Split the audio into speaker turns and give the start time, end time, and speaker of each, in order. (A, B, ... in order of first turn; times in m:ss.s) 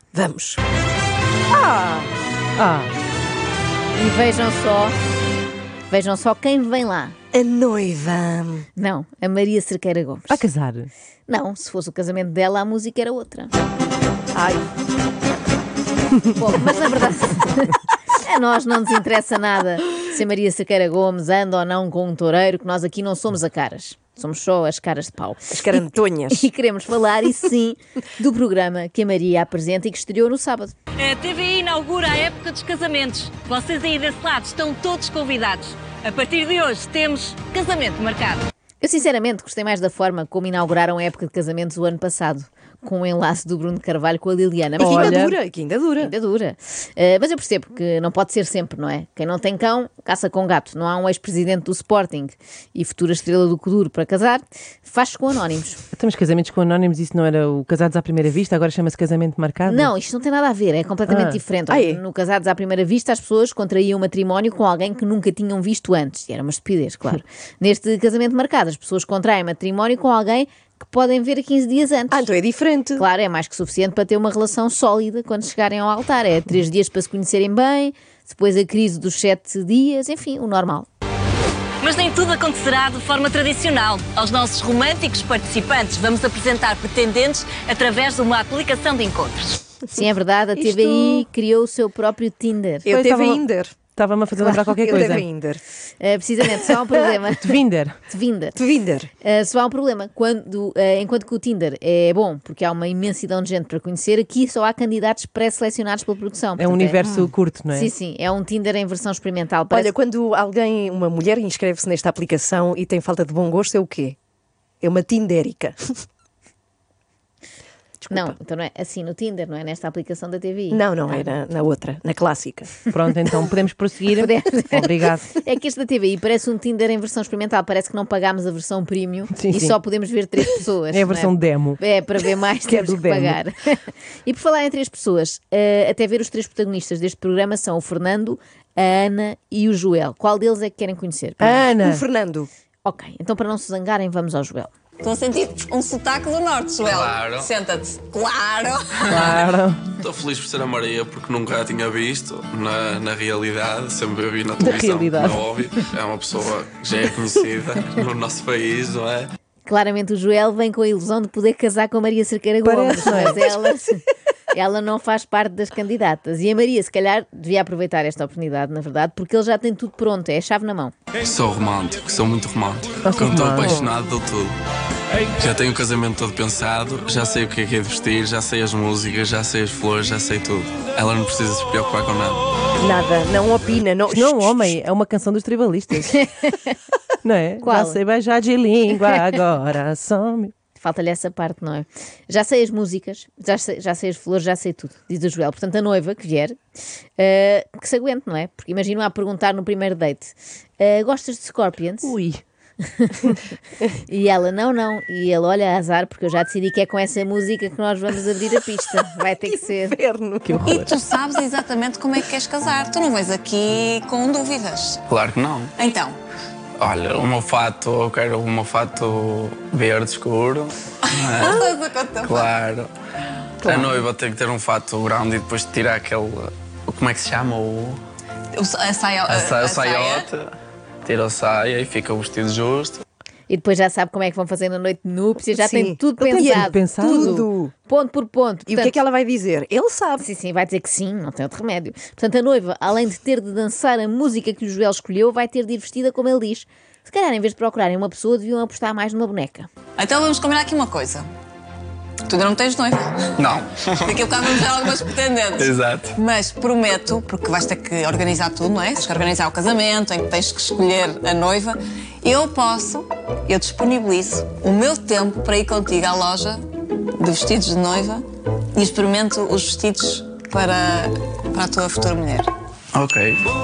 0:00.1-0:00.6 A
0:01.5-0:02.1 A
0:02.6-0:02.9 B
0:03.9-0:04.9 C
0:05.9-0:07.2 C
0:07.3-0:08.6 A
0:08.8-0:10.4 C
0:10.3-0:10.9 B
0:11.3-0:13.5 C
0:14.3-0:14.6 A
0:16.3-0:25.8 C
0:25.5-0:26.4 A
0:26.3-0:30.7 C
0:31.0-0:38.4 D
0:38.8-0:45.3 C
0:44.8-0:46.1 A
0:44.8-0:45.4 B
0:46.0-0:55.8 C
0:55.9-0:59.9 B
0:59.6-1:12.3 C
1:01.1-1:01.4 B
1:01.7-1:02.0 A
1:12.1-1:13.0 A
1:13.0-1:20.9 C
1:21.8-1:29.6 D
1:29.9-1:32.9 C
1:30.6-1:31.2 A
1:32.8-1:33.7 A
1:32.9-1:35.3 B
1:34.7-1:35.6 A
1:36.0-1:38.6 C
1:37.4-1:38.0 B
1:38.6-1:39.1 A
1:39.2-1:47.0 C
1:46.6-1:47.9 B
1:47.0-1:47.3 A
1:47.7-1:49.9 C
1:49.7-1:54.2 A
1:54.8-1:56.0 A
1:58.0-1:58.3 A
1:58.1-2:01.3 C
2:00.7-2:02.7 A
2:02.9-2:05.3 B
2:04.2-2:21.6 C
2:09.3-2:09.8 B
2:10.9-2:11.8 B
2:12.6-2:13.4 B
2:21.4-2:22.5 A
2:21.6-2:22.0 B
2:22.8-2:24.7 C
2:25.0-2:28.9 E
2:26.8-2:27.5 F
2:29.1-2:29.4 F
2:29.1-2:29.8 B
2:29.9-2:39.3 F
2:34.6-2:35.4 B
2:39.6-2:43.9 C
2:42.6-2:43.4 B
2:44.5-2:50.9 C
2:51.2-2:54.5 F
2:53.0-2:53.8 B
2:55.4-3:02.4 F
3:02.8-3:04.8 A
3:04.1-3:06.2 B
3:06.2-3:06.7 C
3:07.2-3:10.5 B
3:07.6-3:08.0 C
3:10.8-3:16.6 C
3:17.2-3:22.1 C
3:22.0-3:22.4 B
3:22.9-3:23.3 C
3:24.1-3:30.0 C
3:29.8-3:30.8 A
3:30.4-3:31.0 B
3:30.6-3:35.0 E
3:35.1-3:35.7 F
3:35.8-3:36.2 E
3:36.8-3:41.7 F
3:41.1-3:42.5 E
3:42.2-3:42.9 F
3:43.6-3:48.0 F
3:43.6-3:44.0 A
3:48.5-3:50.3 E
3:49.3-3:53.0 F
3:53.5-3:59.0 C
3:55.5-3:57.7 A
3:56.2-3:57.5 B
3:58.7-4:00.2 A
4:00.2-4:09.7 C
4:10.0-4:11.3 E
4:12.2-4:26.6 E
4:13.4-4:14.9 F
4:15.6-4:16.2 F
4:27.2-4:32.5 E
4:32.9-4:33.4 F